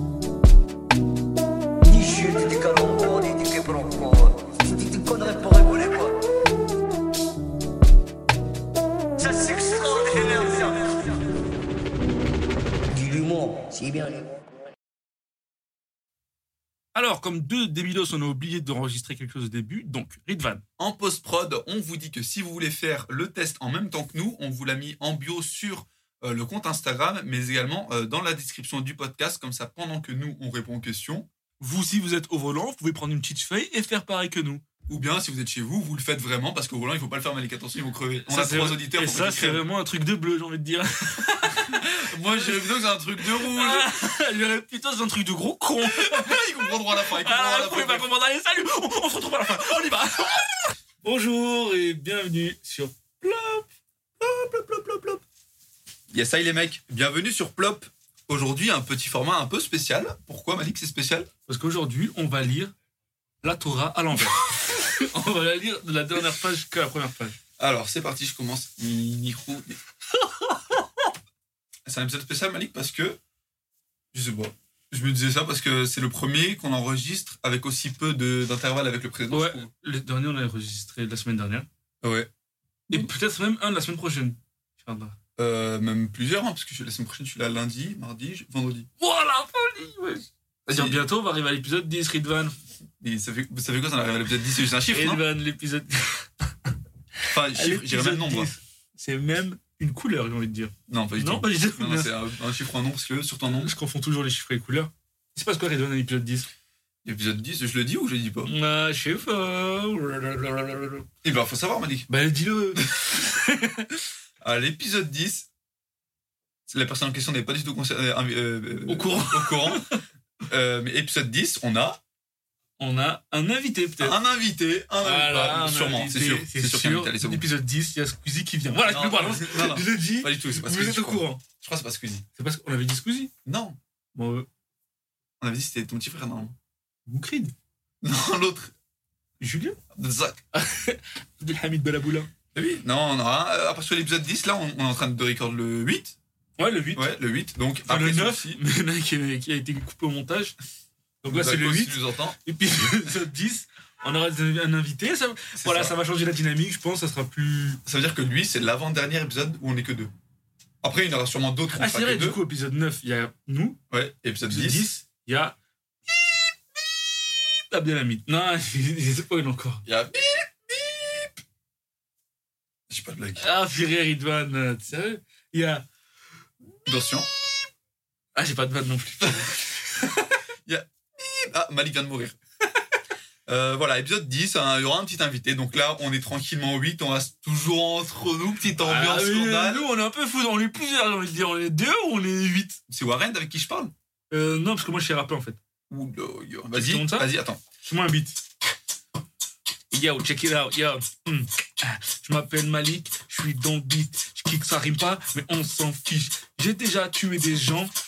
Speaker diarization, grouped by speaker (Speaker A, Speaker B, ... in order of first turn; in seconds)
Speaker A: 1.9-6.3, 9.2-11.2, 12.9-14.3
Speaker B: 16.9-20.6, 31.6-34.6, 38.3-42.7, 43.2-53.7, 54.2-55.2, 61.5-62.7, 63.4-67.4, 70.2-70.8, 79.3-81.7, 82.9-85.2, 89.0-92.5, 94.8-96.3, 97.2-102.1, 103.5-106.5, 108.5-111.1, 112.1-113.9, 118.9-120.0, 122.8-124.2, 125.0-131.4, 132.4-133.3, 134.2-134.5, 137.1-137.5, 139.4-139.8, 140.5-142.3, 146.6-147.1, 147.9-150.6, 151.2-157.8, 161.7-163.8, 164.5-165.6, 167.6-169.8, 173.4-175.9, 178.3-180.4, 188.8-192.8, 194.3-195.6, 196.7-198.4, 199.9-207.9
Speaker C: 20.8-31.3, 34.9-39.6, 41.5-43.9, 45.8-48.1, 56.1-61.3, 67.6-69.8, 71.9-73.2, 74.1-79.7, 82.0-82.3, 85.4-88.9, 90.7-91.0, 93.0-95.2, 97.3-98.5, 100.9-103.7, 107.0-108.5, 111.2-112.1, 112.8-113.1, 114.4-115.5, 116.7-119.8, 120.5-122.0, 124.0-127.5, 128.9-132.2, 133.4-133.8, 135.4-136.6, 138.0-138.7, 139.9-140.4, 142.6-146.2, 146.9-148.6, 151.3-152.9, 155.6-155.9, 157.9-160.1, 160.8-162.4, 163.9-164.9, 169.8-171.3, 172.9-173.4, 176.9-177.3, 180.7-182.3, 183.5-189.9, 192.9-193.9, 195.9-197.6